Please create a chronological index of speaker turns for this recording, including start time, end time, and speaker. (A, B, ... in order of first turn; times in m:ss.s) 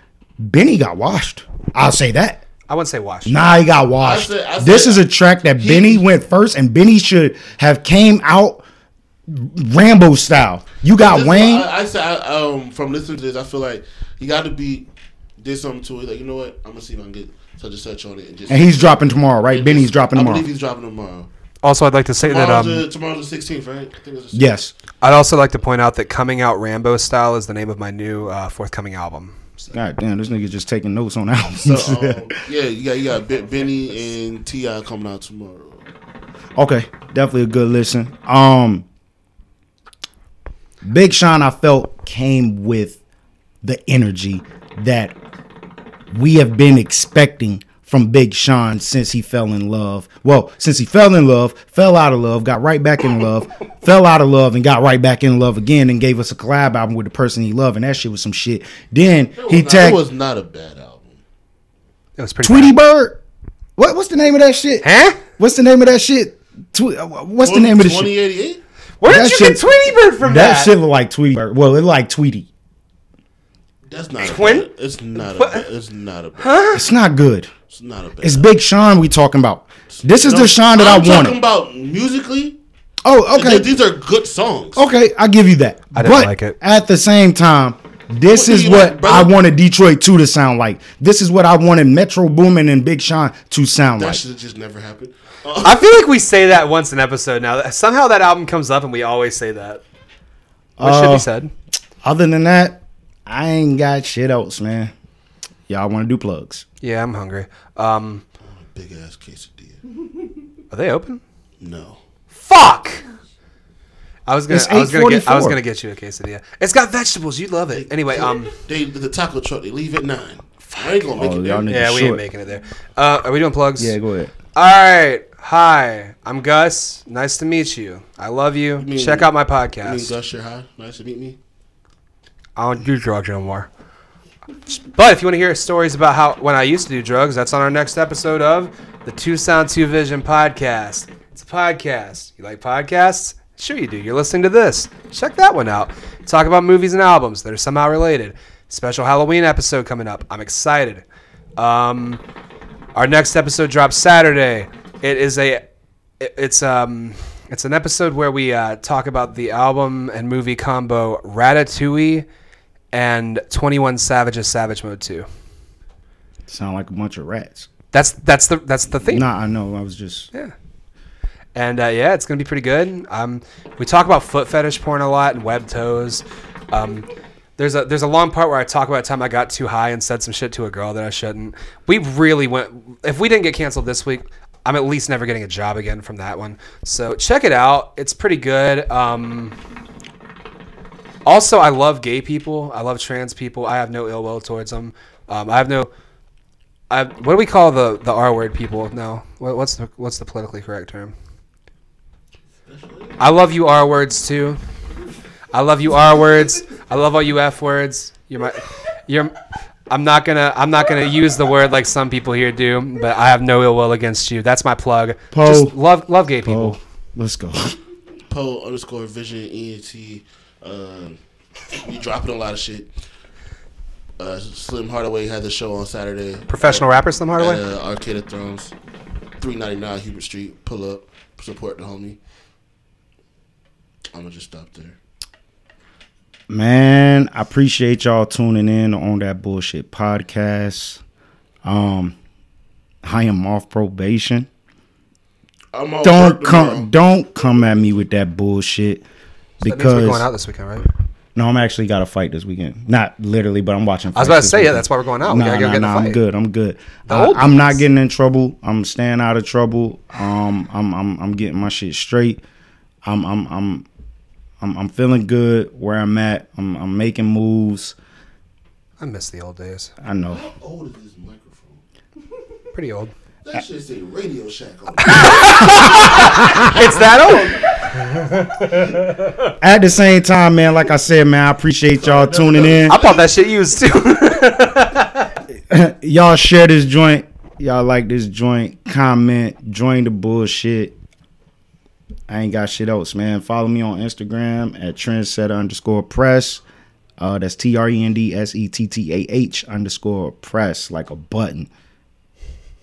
0:00.4-0:02.4 A
0:02.7-0:03.4 B
0:03.3-0:08.6 A
0:04.0-0:05.0 C
0:05.6-0:06.1 C
0:09.3-0:11.7 A
0:11.0-0:14.9 C
0:15.4-0:21.3 C
0:18.5-0:20.5 A
0:21.6-0:22.8 B
0:22.2-0:24.6 C
0:24.3-0:24.7 A
0:25.0-0:29.7 B
0:29.7-0:32.3 A
0:31.6-0:35.8 C
0:36.6-0:38.8 A
0:40.8-0:43.0 A
0:43.6-0:45.2 A
0:46.1-1:00.0 A
0:59.4-1:01.2 C
1:02.2-1:02.8 B
1:02.4-1:03.2 A
1:03.8-1:04.8 A
1:04.8-1:05.2 B
1:05.4-1:08.1 A
1:07.4-1:08.6 C
1:09.0-1:10.8 B
1:09.0-1:09.6 A
1:10.2-1:12.5 A
1:13.8-1:16.6 C
1:14.2-1:15.6 B
1:16.4-1:16.8 B
1:16.7-1:17.5 A
1:17.7-1:18.5 C
1:18.2-1:21.4 A
1:19.9-1:22.6 C
1:23.0-1:23.7 A
1:23.3-1:24.8 C
1:24.8-1:34.2 A
1:25.9-1:26.6 B
1:28.3-1:29.3 C
1:34.0-1:35.9 C
1:35.6-1:39.8 B
1:40.8-1:41.3 A
1:40.8-1:41.5 B
1:42.0-1:44.9 A
1:45.7-1:46.6 A
1:46.8-1:48.2 B
1:48.4-1:49.8 C
1:50.7-1:51.2 B
1:51.6-1:52.0 C
1:52.3-1:53.0 B
1:54.3-1:58.5 B
1:54.5-1:55.6 A
1:57.7-2:01.7 C
2:00.7-2:01.0 B
2:01.1-2:02.2 A
2:01.7-2:04.0 B
2:03.8-2:04.3 A
2:04.5-2:10.1 B
2:08.8-2:09.3 C
2:09.8-2:11.4 C
2:12.6-2:13.7 B
2:14.7-2:31.0 B
2:31.6-2:32.2 B
2:32.9-2:35.6 B
2:36.2-2:42.2 B
2:42.9-2:45.2 B
2:46.5-2:47.7 A
2:47.9-2:49.3 B
2:49.1-2:50.3 A
2:51.5-3:09.6 B
3:11.2-3:15.9 B
3:16.9-3:21.1 B
3:22.6-3:23.2 C
3:23.2-3:24.6 B
3:25.5-3:29.3 B
3:29.9-3:36.8 B
3:35.3-3:35.8 A
3:36.4-3:37.8 A
3:38.3-3:41.2 C
3:41.7-3:42.9 C
3:44.2-3:48.7 C
3:46.5-3:47.6 B
3:49.4-3:52.2 C
3:54.1-3:55.0 C
3:56.5-4:01.0 A
4:01.6-4:02.2 A
4:03.0-4:04.5 A
4:05.7-4:06.9 C
4:06.0-4:09.0 A
4:09.6-4:10.3 A
4:09.6-4:10.9 B
4:11.3-4:22.4 A
4:14.1-4:16.2 B
4:17.1-4:17.8 B
4:23.0-4:23.8 A
4:24.6-4:28.0 A
4:29.0-4:29.9 B
4:30.0-4:30.4 A
4:30.3-4:31.8 C
4:32.7-4:33.1 B
4:33.4-4:37.7 C
4:35.0-4:39.5 B
4:36.0-4:36.7 A
4:39.6-4:43.0 A
4:42.0-4:43.2 C
4:42.9-4:45.3 B
4:45.7-4:51.0 A
4:52.3-4:56.6 A
4:57.2-5:01.7 A